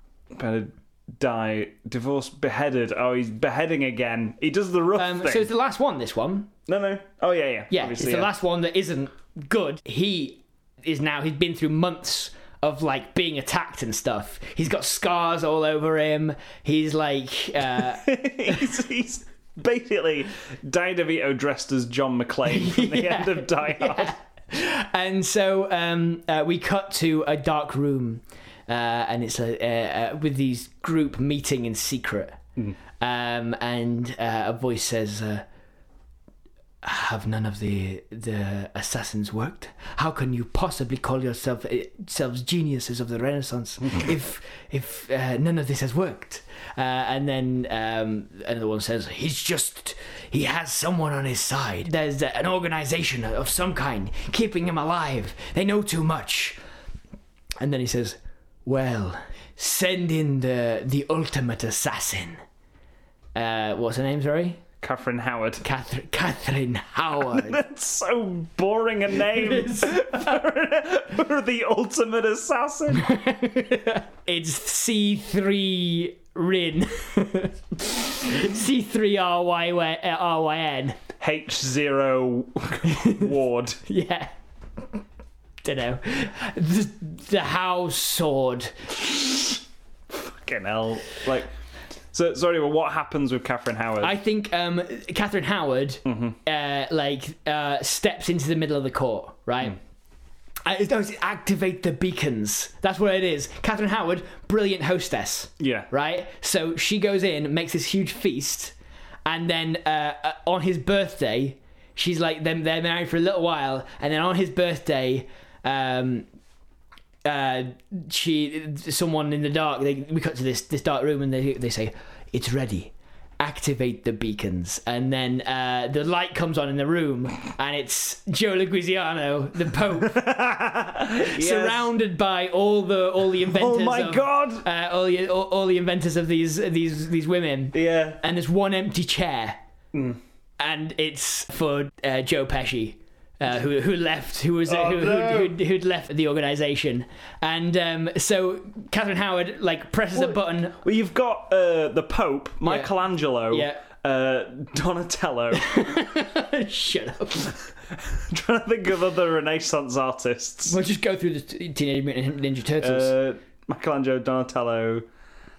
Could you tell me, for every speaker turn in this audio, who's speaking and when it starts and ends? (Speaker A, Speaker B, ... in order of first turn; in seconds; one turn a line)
Speaker A: 0.3-5.5
Speaker B: 5.0-6.5
Speaker A: 6.7-8.3
Speaker B: 7.7-18.7
Speaker A: 17.8-24.1
Speaker B: 22.4-32.4
Speaker B: 33.0-35.5
Speaker B: 36.8-56.6
Speaker B: 57.6-62.4
Speaker B: 63.4-64.6
Speaker A: 64.8-65.6
Speaker B: 65.6-67.6
Speaker A: 67.2-73.2
Speaker B: 69.3-70.3
Speaker B: 72.9-81.0
Speaker A: 81.2-83.8
Speaker B: 82.8-83.3
Speaker B: 83.9-84.3
Speaker B: 85.6-88.9
Speaker A: 90.1-91.5
Speaker A: 92.1-94.2
Speaker B: 94.0-99.8
Speaker A: 96.1-96.4
Speaker B: 100.6-108.7
Speaker A: 105.6-105.9
Speaker B: 109.3-116.3
Speaker B: 117.2-130.2
Speaker A: 130.0-131.9
Speaker B: 131.1-139.6
Speaker A: 133.4-134.6
Speaker A: 137.7-138.2
Speaker A: 139.9-140.2
Speaker B: 140.6-150.8
Speaker A: 144.7-145.6
Speaker A: 150.1-155.9
Speaker B: 152.6-152.9
Speaker B: 153.5-153.8
Speaker B: 155.5-157.6
Speaker A: 158.0-160.8
Speaker B: 160.7-163.1
Speaker A: 162.8-165.1